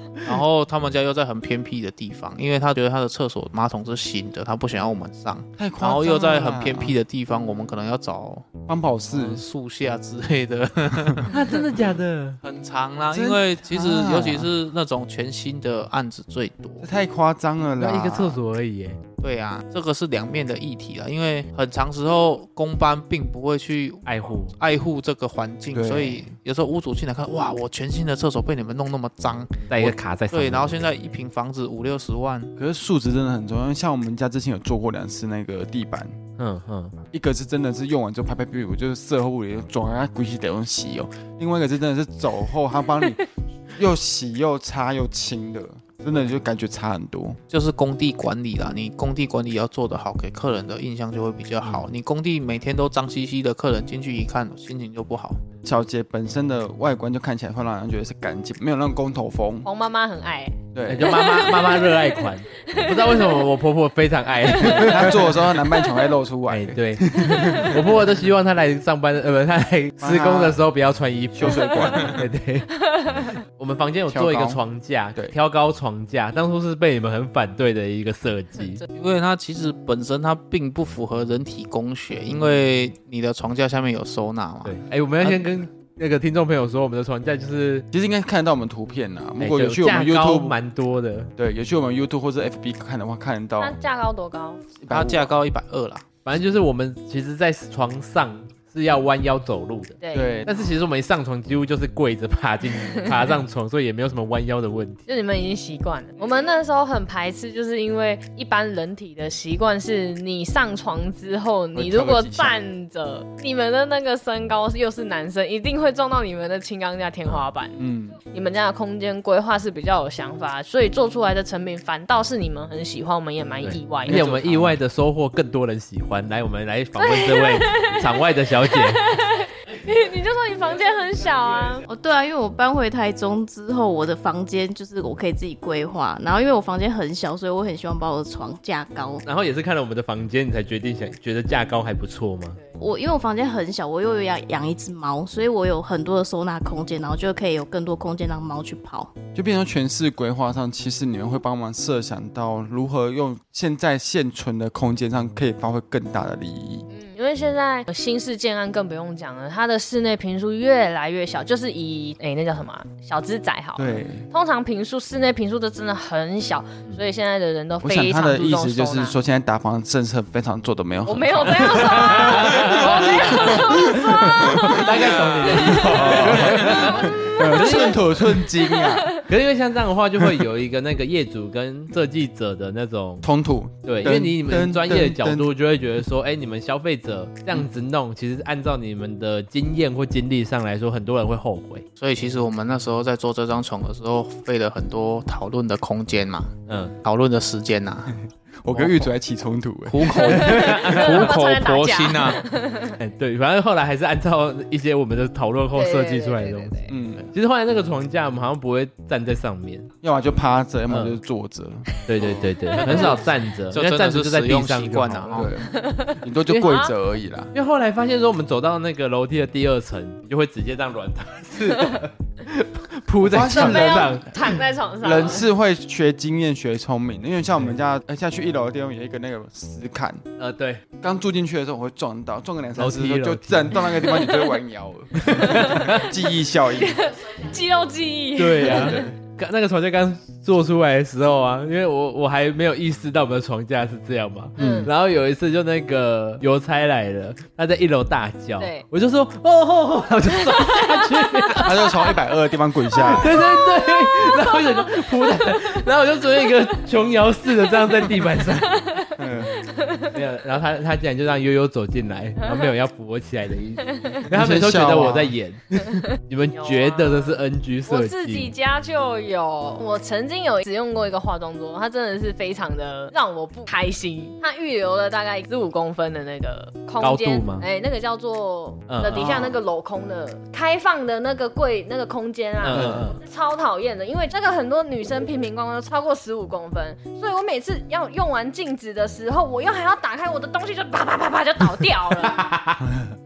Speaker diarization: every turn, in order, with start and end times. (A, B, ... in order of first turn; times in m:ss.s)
0:00.2-0:11.6 A
0:05.6-0:07.0 B
0:08.7-0:09.4 B
0:11.3-0:12.4 C
0:12.4-0:16.9 A
0:13.1-0:14.5 B
0:16.8-0:18.4 B
0:17.8-0:19.0 C
0:19.2-0:32.5 A
0:24.0-0:24.5 C
0:25.7-0:26.3 B
0:29.7-0:30.9 C
0:32.6-0:36.2 B
0:36.4-0:36.9 C
0:37.1-0:47.4 B
0:47.5-0:55.4 A
0:55.6-0:59.7 B
0:59.6-1:03.5 D
1:00.7-1:01.3 B
1:00.8-1:05.2 C
1:04.5-1:05.2 D
1:04.6-1:07.9 B
1:06.5-1:18.8 C
1:07.3-1:07.7 D
1:10.0-1:10.6 B
1:11.3-1:12.2 B
1:14.1-1:14.6 B
1:18.9-1:24.8 A
1:24.6-1:27.9 C
1:27.9-1:30.6 B
1:29.4-1:31.3 C
1:31.4-1:33.8 B
1:33.6-1:34.6 D
1:34.8-1:35.3 B
1:34.9-1:36.0 A
1:36.2-1:45.0 C
1:40.0-1:40.4 D
1:40.1-1:40.7 B
1:45.1-1:57.8 D
1:51.7-1:52.6 B
1:57.8-1:58.2 B
1:58.3-2:04.4 D
2:03.6-2:09.0 C
2:04.0-2:04.8 B
2:07.0-2:11.8 D
2:11.9-2:19.2 E
2:19.2-2:22.6 C
2:22.8-2:29.1 E
2:29.3-2:36.8 B
2:36.9-2:49.1 D
2:43.8-2:44.3 B
2:47.8-2:55.0 B
2:51.0-2:54.9 D
2:51.8-2:58.1 C
2:54.8-2:56.8 A
2:55.6-2:59.2 B
2:56.7-2:59.2 D
2:59.2-3:03.2 C
3:00.2-3:00.4 B
3:03.2-3:05.5 B
3:03.8-3:11.8 C
3:12.0-3:16.5 A
3:16.7-3:16.9 C
3:17.0-3:18.2 A
3:18.6-3:20.6 B
3:18.7-3:19.1 A
3:19.9-3:22.4 A
3:20.1-3:23.0 D
3:20.3-3:21.3 C
3:23.0-3:29.9 C
3:25.7-3:26.9 D
3:26.9-3:27.3 B
3:30.0-3:33.2 B
3:30.9-3:31.2 C
3:32.0-3:35.4 C
3:32.8-3:33.2 A
3:32.8-3:33.2 D
3:33.7-3:35.5 A
3:35.3-3:37.5 B
3:35.6-3:36.9 D
3:37.5-3:44.6 C
3:43.2-3:44.4 B
3:43.5-3:45.5 D
3:45.0-3:50.2 B
3:50.4-3:50.8 C
3:51.0-3:57.1 B
3:52.8-3:53.9 C
3:54.0-3:54.5 D
3:55.2-3:56.0 C
3:55.4-3:56.0 D
3:56.8-3:59.1 D
3:58.4-4:11.8 C
3:58.6-3:59.1 B
4:04.6-4:04.9 B
4:04.6-4:04.9 D
4:08.6-4:08.8 D
4:10.5-4:12.0 D
4:11.6-4:13.4 B
4:13.0-4:19.0 C
4:13.2-4:15.3 D
4:18.8-4:20.1 D
4:19.2-4:19.5 B
4:20.1-4:28.5 C
4:22.4-4:22.7 D
4:24.3-4:25.4 B
4:26.6-4:52.4 D
4:37.0-4:37.6 C
4:38.9-4:39.3 C
4:39.1-4:39.6 B
4:42.6-4:43.2 C
4:42.7-4:43.0 B
4:52.1-4:52.9 C